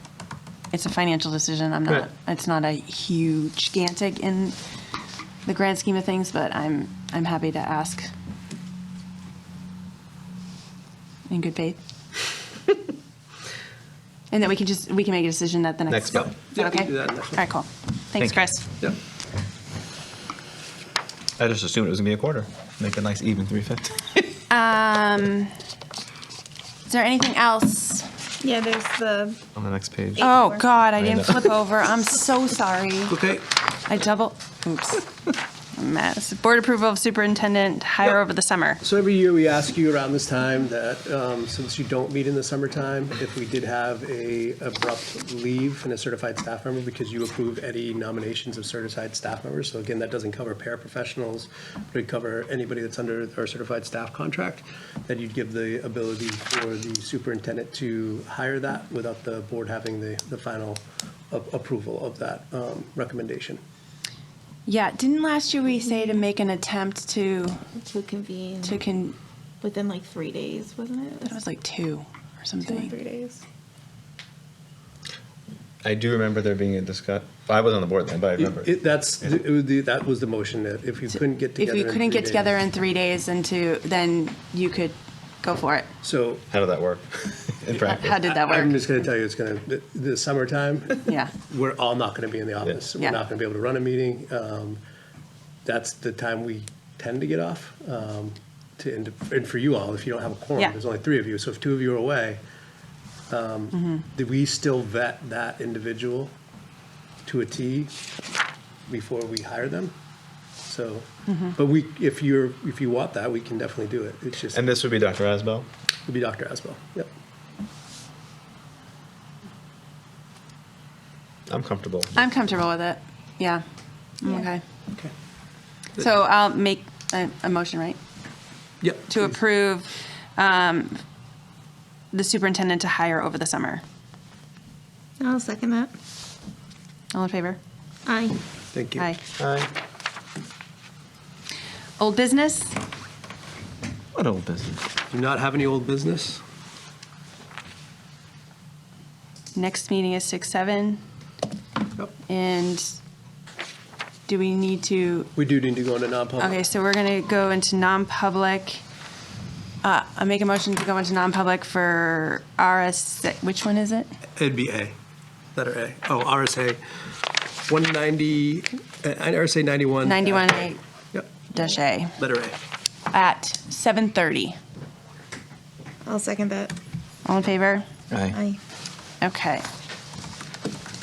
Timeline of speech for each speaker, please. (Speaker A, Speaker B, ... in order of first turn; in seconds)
Speaker A: 0.7-4.6, 5.5-8.1, 11.3-11.8, 14.3-18.7, 24.5-25.5, 26.9-28.1, 30.2-33.2, 33.8-35.1, 35.7-38.8, 64.7-67.6, 68.6-69.2, 71.3-72.9, 81.6-85.9, 87.7-88.8, 91.1-91.3, 111.3-111.5, 122.2-123.6, 124.2-124.6, 126.0-128.0, 129.1-131.0, 132.1-133.8, 137.1-137.6, 142.0-142.8, 149.6-151.0, 152.3-152.9, 154.3-155.3, 156.4-158.8, 159.8-164.1, 170.0-170.8, 171.5-172.2, 173.1-174.6, 177.2-177.8, 179.2-179.7
Speaker B: 15.9-16.2, 18.2-18.5, 21.4-24.0, 29.6-30.3, 31.0-31.3, 75.8-78.7, 86.5-88.2, 114.5-115.7, 121.5-122.2, 139.4-139.7, 144.1-144.8, 178.1-178.4
Speaker C: 16.1-17.4, 33.1-33.5, 38.8-63.6, 78.4-82.6, 86.0-86.4, 88.2-94.8, 95.7-102.4, 103.3-106.3, 107.2-107.9, 108.9-109.9, 110.7-114.6, 116.1-117.1, 128.8-129.3, 138.7-139.1, 145.1-146.4, 155.4-156.6, 164.4-165.0, 165.6-166.8, 167.7-171.4, 172.2-172.6
Speaker D: 28.4-29.4, 30.2-30.6, 67.8-68.8, 69.6-71.4, 72.6-73.4, 135.2-135.9, 138.1-138.4, 176.1-176.8, 178.3-178.6